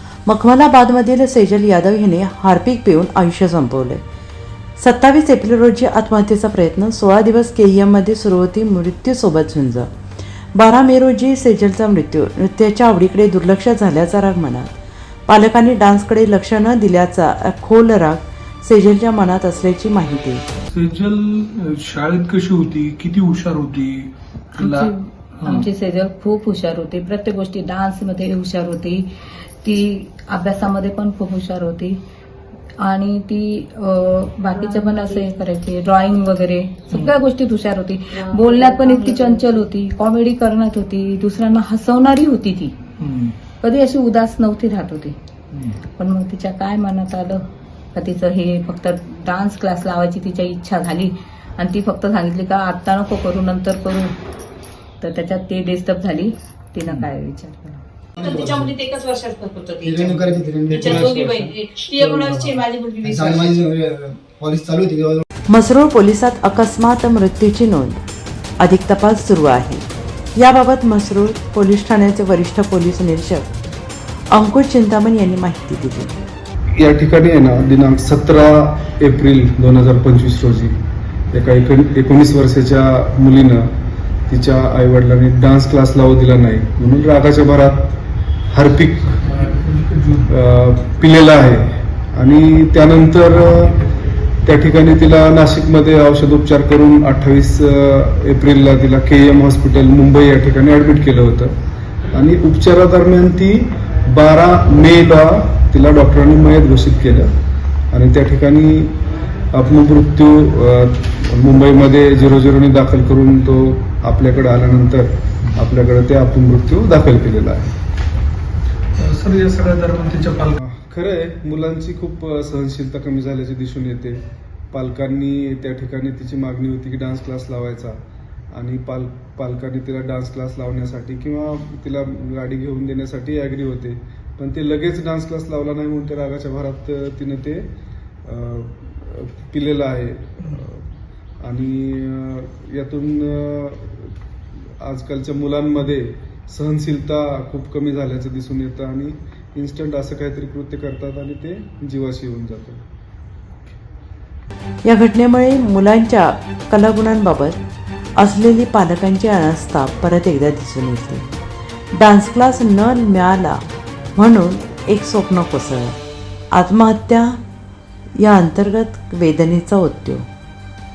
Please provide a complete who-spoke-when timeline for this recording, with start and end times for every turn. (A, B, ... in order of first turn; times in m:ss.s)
0:00.2-0:04.0 A
0:04.8-0:09.9 A
0:10.5-0:20.4 A
0:20.7-0:25.7 B
0:24.6-0:32.0 C
0:32.8-0:42.8 C
0:34.5-0:35.2 D
0:36.9-0:37.2 B
0:38.1-0:39.5 D
0:43.0-0:43.3 B
0:43.6-0:45.2 C
0:46.0-0:54.2 C
0:55.0-0:57.8 C
0:58.2-1:04.4 D
0:59.8-1:00.8 E
1:00.8-1:01.1 F
1:03.1-1:05.2 E
1:05.5-1:08.0 A
1:08.6-1:09.8 A
1:10.4-1:13.5 A
1:14.3-1:16.1 A
1:16.8-1:20.7 F
1:21.3-1:23.7 F
1:24.3-1:28.0 F
1:28.5-1:29.1 F
1:29.2-1:30.3 B
1:30.3-1:33.8 F
1:34.4-1:41.5 F
1:42.1-1:47.3 F
1:47.9-1:49.0 F
1:49.5-1:57.7 F
1:59.0-2:00.6 B
2:00.6-2:04.2 F
2:04.7-2:08.0 F
2:08.5-2:17.7 F
2:18.2-2:20.8 F
2:21.4-2:24.1 F
2:24.8-2:32.8 F
2:34.8-2:37.6 A
2:38.2-2:41.2 A
2:41.9-2:43.6 A
2:44.1-2:46.0 A
2:46.5-2:47.4 A
2:48.2-2:50.3 A